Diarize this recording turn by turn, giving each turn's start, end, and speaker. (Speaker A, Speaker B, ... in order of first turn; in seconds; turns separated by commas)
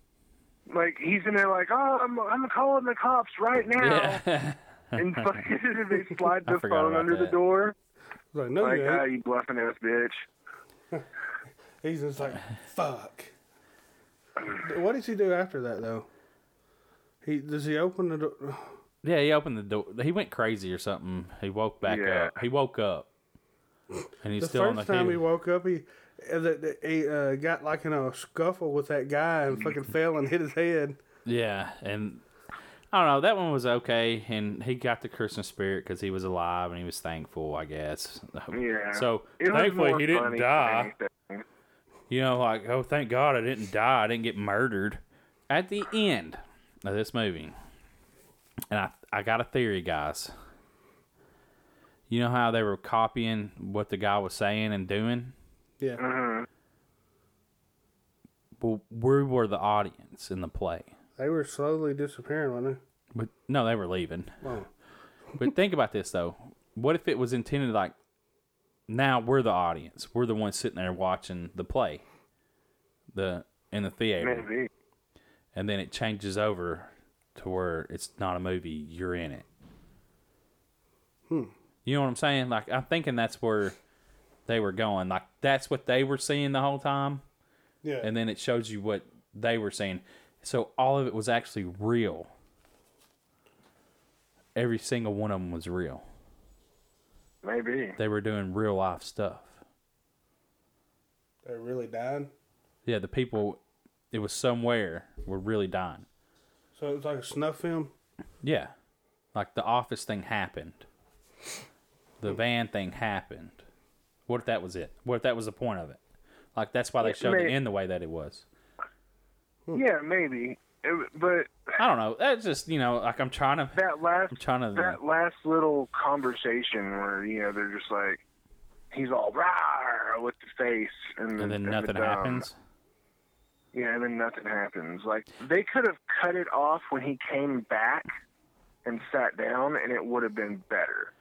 Speaker A: 0.7-4.2, Speaker B: 3.8-5.5, Speaker A: 5.0-7.7, Speaker B: 6.4-7.4, Speaker C: 8.3-9.1, Speaker A: 8.6-10.3, Speaker C: 11.8-13.3, Speaker C: 14.6-16.1, Speaker C: 17.2-18.8, Speaker B: 19.0-23.1, Speaker A: 21.8-22.3, Speaker B: 24.2-25.2, Speaker C: 24.4-31.0, Speaker B: 31.2-32.2, Speaker B: 32.9-40.9, Speaker A: 38.5-41.4, Speaker B: 42.1-47.5, Speaker B: 48.7-50.3, Speaker B: 52.1-55.3, Speaker A: 56.0-56.5, Speaker B: 58.6-60.9, Speaker C: 61.2-62.8, Speaker B: 63.1-64.4, Speaker C: 64.4-64.7, Speaker B: 65.4-67.9, Speaker B: 68.9-72.0, Speaker B: 73.1-74.5, Speaker A: 74.2-74.7, Speaker B: 75.5-79.5, Speaker C: 81.3-81.5, Speaker B: 81.8-83.8, Speaker B: 84.5-87.2, Speaker C: 87.8-88.1, Speaker B: 88.0-92.3, Speaker B: 94.5-96.0, Speaker A: 97.4-98.0, Speaker B: 98.0-99.6, Speaker C: 101.4-102.3, Speaker B: 102.8-103.6, Speaker B: 104.1-106.0, Speaker C: 106.7-107.9, Speaker B: 108.4-108.7, Speaker B: 109.3-110.8, Speaker B: 112.2-113.6, Speaker B: 114.3-116.0, Speaker B: 116.5-118.5, Speaker A: 117.0-117.5, Speaker A: 119.7-121.8, Speaker B: 121.8-123.8, Speaker A: 123.7-128.2, Speaker B: 124.3-125.0, Speaker A: 128.9-132.5, Speaker B: 131.4-132.6, Speaker A: 133.7-138.1, Speaker A: 138.8-141.1